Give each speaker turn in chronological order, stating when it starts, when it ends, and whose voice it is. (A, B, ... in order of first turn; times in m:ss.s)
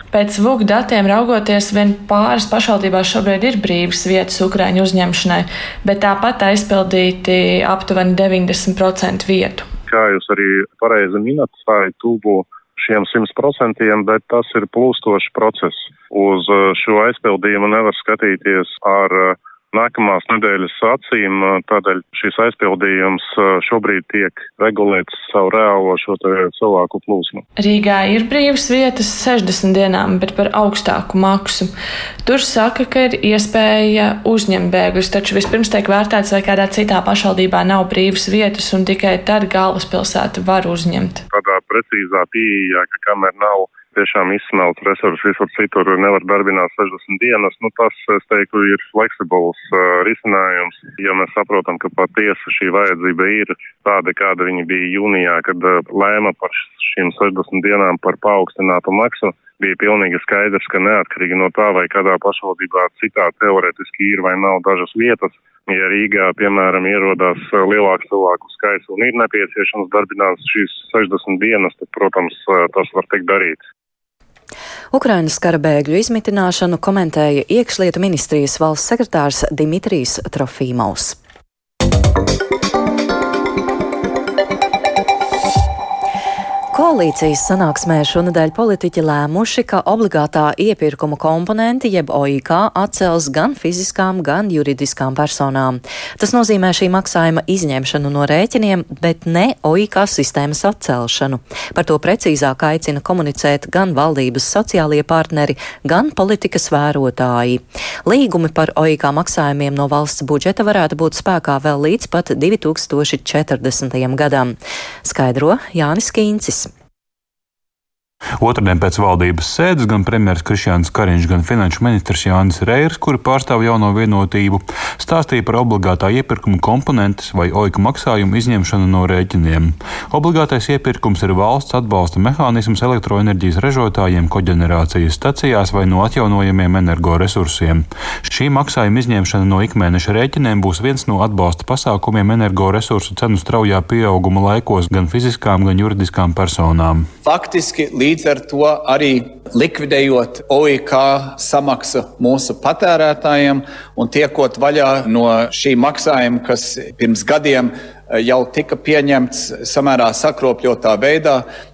0:00.1-0:09.7 A
0:09.9-0:27.4 B
0:27.6-0:31.7 A
0:32.2-0:41.2 A
0:41.3-1:13.6 B
1:14.9-1:21.2 C
1:26.7-1:56.7 C
1:58.4-2:27.1 D
2:27.2-2:41.5 E